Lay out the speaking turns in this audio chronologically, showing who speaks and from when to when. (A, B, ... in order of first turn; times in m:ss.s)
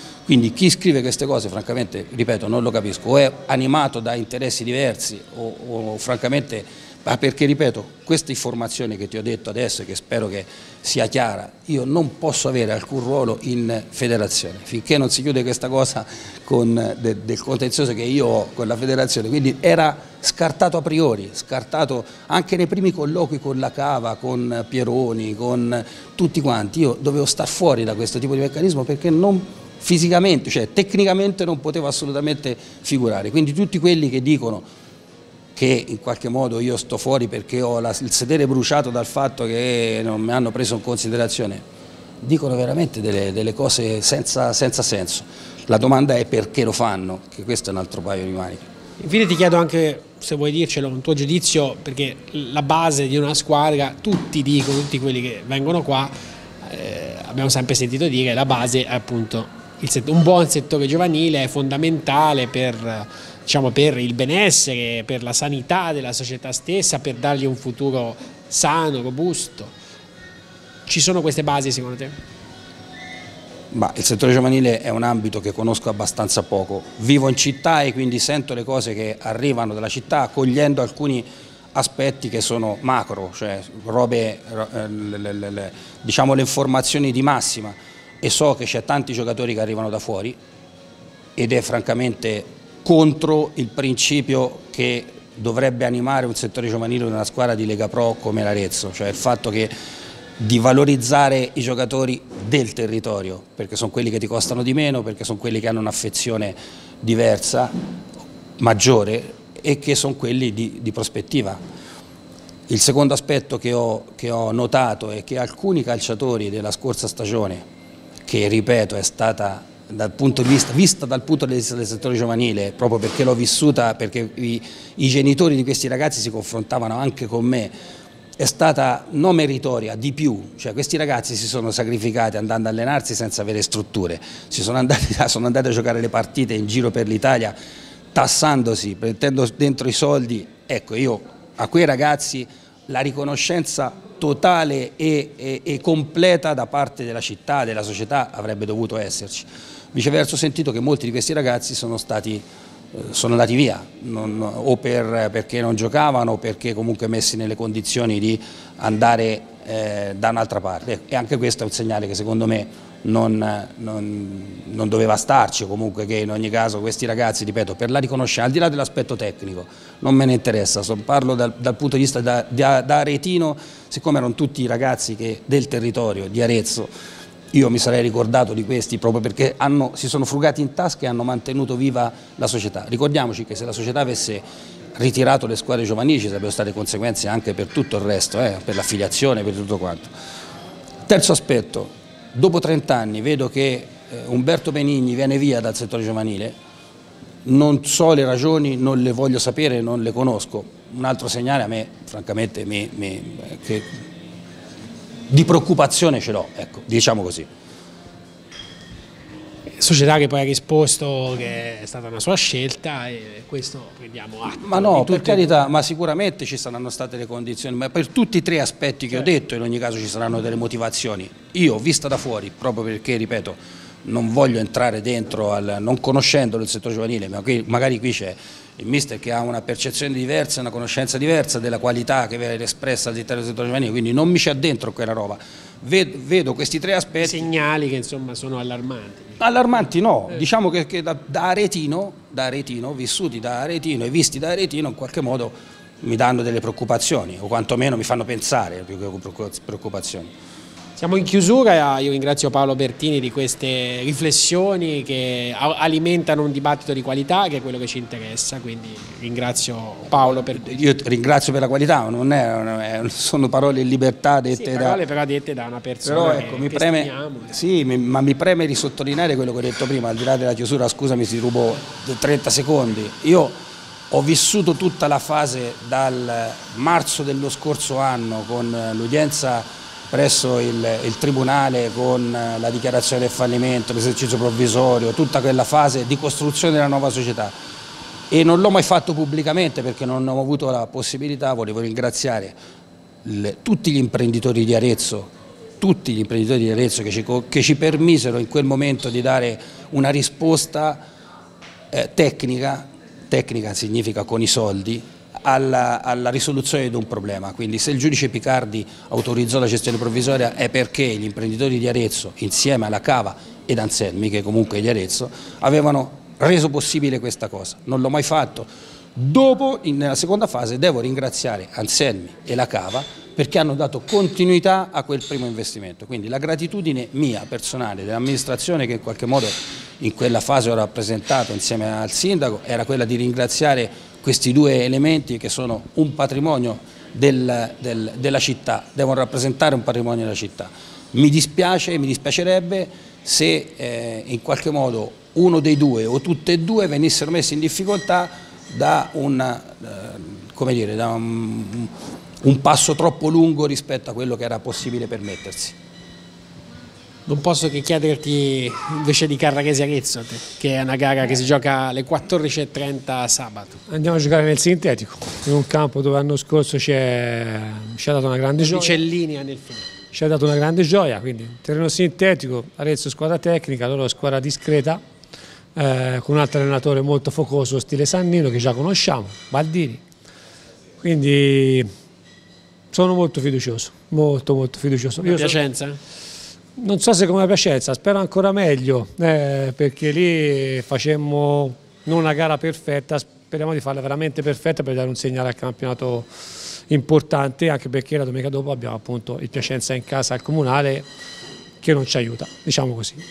0:00.3-0:34.7 A
0:35.6-0:41.6 A
0:42.2-0:48.6 A
0:49.0-1:09.7 B
1:10.9-1:12.2 B
1:13.7-1:30.4 A
1:31.4-1:39.7 A
1:40.4-1:47.8 A
1:48.6-1:51.6 A
1:52.7-1:57.7 A
1:58.3-2:07.7 A
2:08.4-2:17.6 A
2:18.1-2:56.9 A
2:57.5-3:10.1 A
3:11.1-3:16.6 A
3:17.4-3:23.9 A
3:25.3-3:27.5 A
3:29.7-3:35.6 B
3:34.6-3:57.5 A
3:57.2-3:59.4 B
3:59.4-4:10.3 A
4:11.0-4:20.8 B
4:20.5-4:25.0 A
4:24.5-4:27.6 B
4:26.0-4:33.6 A
4:34.1-4:47.6 A
4:48.3-4:52.6 A
4:53.2-5:01.0 A
5:01.9-5:55.8 A
5:57.3-6:03.8 B
6:03.9-6:09.0 C
6:08.6-6:09.9 B
6:10.1-6:15.0 C
6:15.8-6:20.0 C
6:21.0-6:21.9 C
6:22.9-6:25.6 C
6:25.2-6:26.0 B
6:26.8-6:36.3 C
6:36.9-6:41.1 C
6:41.8-6:43.2 C